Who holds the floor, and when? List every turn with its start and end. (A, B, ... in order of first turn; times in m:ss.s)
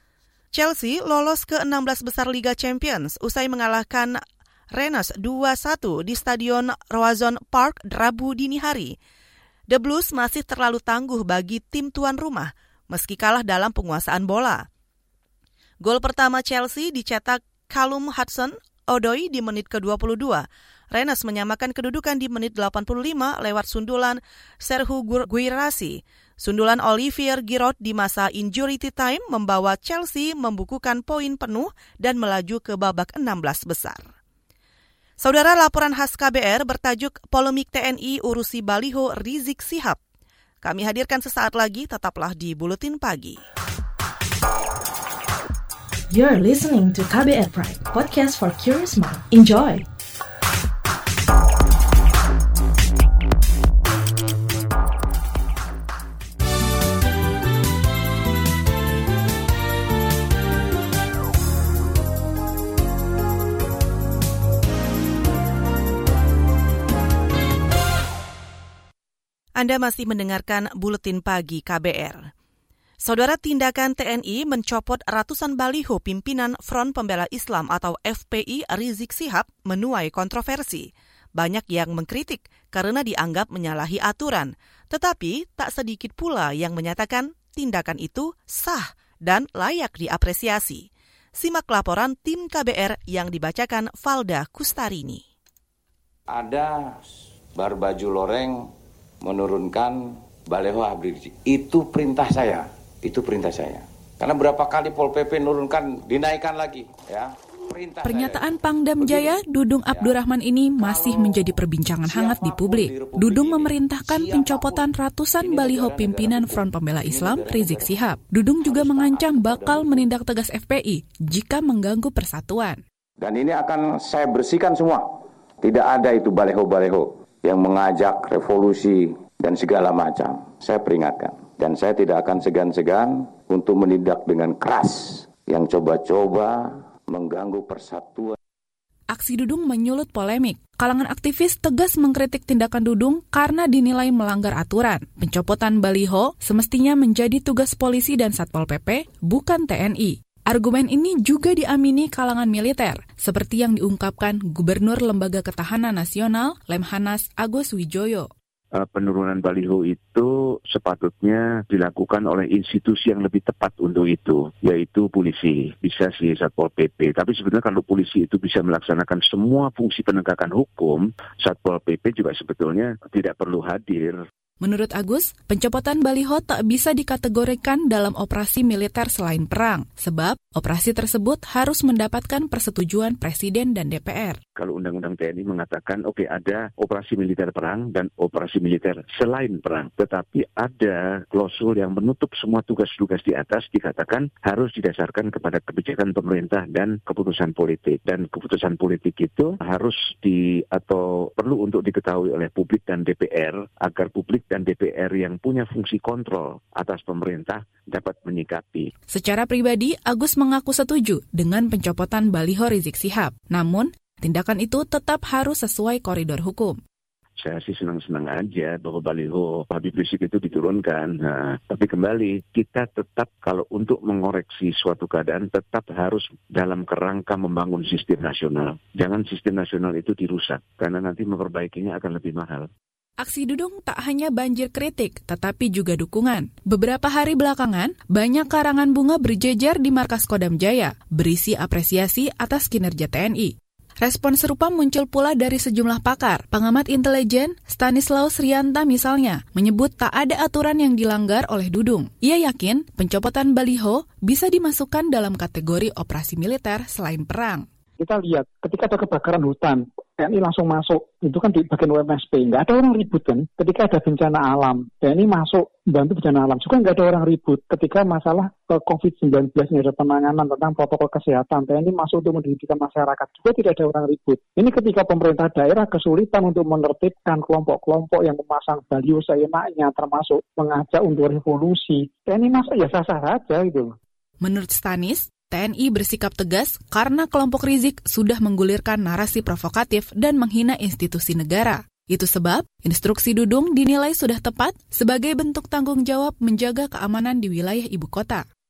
0:00.5-0:04.2 A
0:04.7-0:09.0 A
0:09.7-0:14.6 A
0:15.8-0:34.0 A
0:35.2-0:40.0 A
0:40.6-0:43.4 A
0:46.1-0:49.8 B
1:09.6-1:12.3 A
1:13.0-1:30.8 A
1:31.4-1:35.2 A
1:36.3-1:38.7 C
1:39.2-1:48.5 C
1:48.0-2:02.8 D
1:49.0-1:50.2 C
1:50.8-1:54.9 C
1:55.4-1:58.0 C
1:58.6-2:00.1 C
2:03.2-2:18.3 C
2:19.1-2:38.3 D
2:38.8-2:54.2 E
2:54.6-3:04.4 D
3:04.6-3:28.9 E
3:29.1-3:36.8 D
3:37.4-3:52.7 E
3:53.2-4:17.7 D
4:18.0-4:43.9 F
4:44.4-4:58.4 D